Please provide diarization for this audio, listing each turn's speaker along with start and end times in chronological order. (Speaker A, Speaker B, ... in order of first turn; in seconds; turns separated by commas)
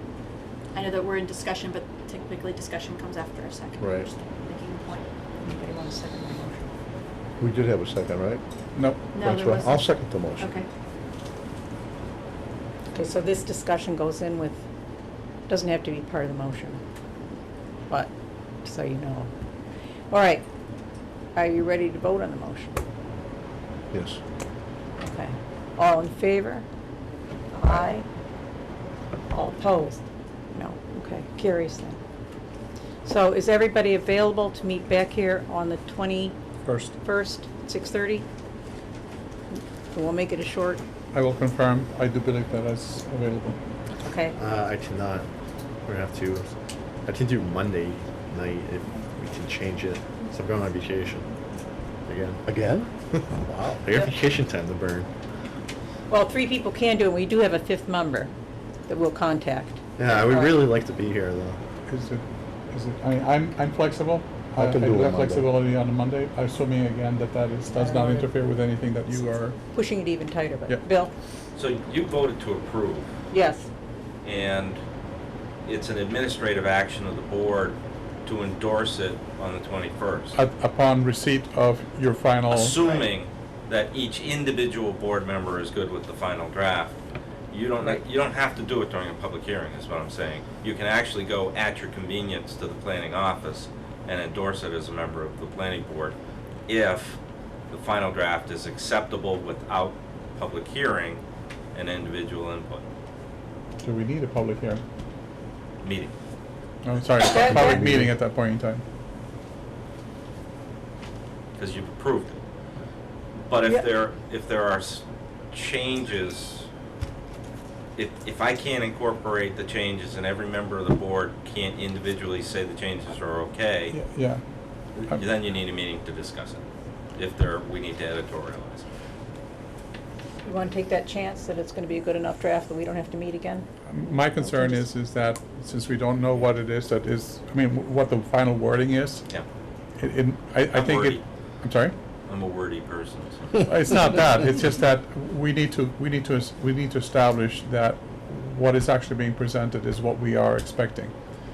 Speaker A: 0.7-5.1, Speaker B: 3.8-4.1, Speaker C: 5.4-6.7, Speaker B: 7.4-8.4, Speaker D: 8.8-9.1, Speaker A: 9.1-10.7, Speaker B: 9.2-10.5, Speaker C: 12.9-14.6, Speaker C: 15.5-16.8, Speaker C: 18.6-19.3, Speaker C: 20.1-20.4, Speaker C: 21.3-22.8, Speaker B: 23.9-24.2, Speaker C: 25.0-26.6, Speaker C: 27.5-28.1, Speaker C: 29.3-30.0, Speaker C: 30.5-32.0, Speaker C: 33.0-36.3, Speaker D: 36.6-37.0, Speaker C: 37.0-38.2, Speaker C: 39.5-40.8, Speaker D: 41.1-43.6, Speaker C: 44.0-44.3, Speaker E: 44.3-45.3, Speaker E: 45.8-46.5, Speaker E: 47.0-51.3, Speaker E: 52.1-55.1, Speaker B: 53.4-53.8, Speaker C: 56.1-58.3, Speaker C: 58.9-60.5, Speaker E: 60.0-61.6, Speaker D: 61.9-69.6, Speaker B: 64.6-65.5, Speaker C: 67.7-68.4, Speaker C: 69.7-71.1, Speaker F: 71.6-73.1, Speaker C: 73.3-73.7, Speaker F: 74.2-74.8, Speaker F: 75.7-80.4, Speaker D: 80.3-82.8, Speaker F: 82.5-87.0, Speaker F: 87.5-96.2, Speaker F: 96.7-97.2, Speaker F: 97.7-102.8, Speaker D: 103.8-104.8, Speaker F: 105.8-106.1, Speaker D: 106.8-108.8, Speaker C: 107.2-107.9, Speaker B: 107.4-108.1, Speaker F: 111.6-112.4, Speaker F: 113.4-116.7, Speaker F: 118.0-124.0, Speaker D: 123.9-124.4, Speaker F: 125.0-126.6, Speaker F: 127.2-128.9, Speaker C: 130.4-134.9, Speaker D: 133.9-139.3, Speaker D: 140.0-141.9, Speaker F: 140.7-141.2, Speaker F: 142.2-144.2, Speaker D: 143.7-151.1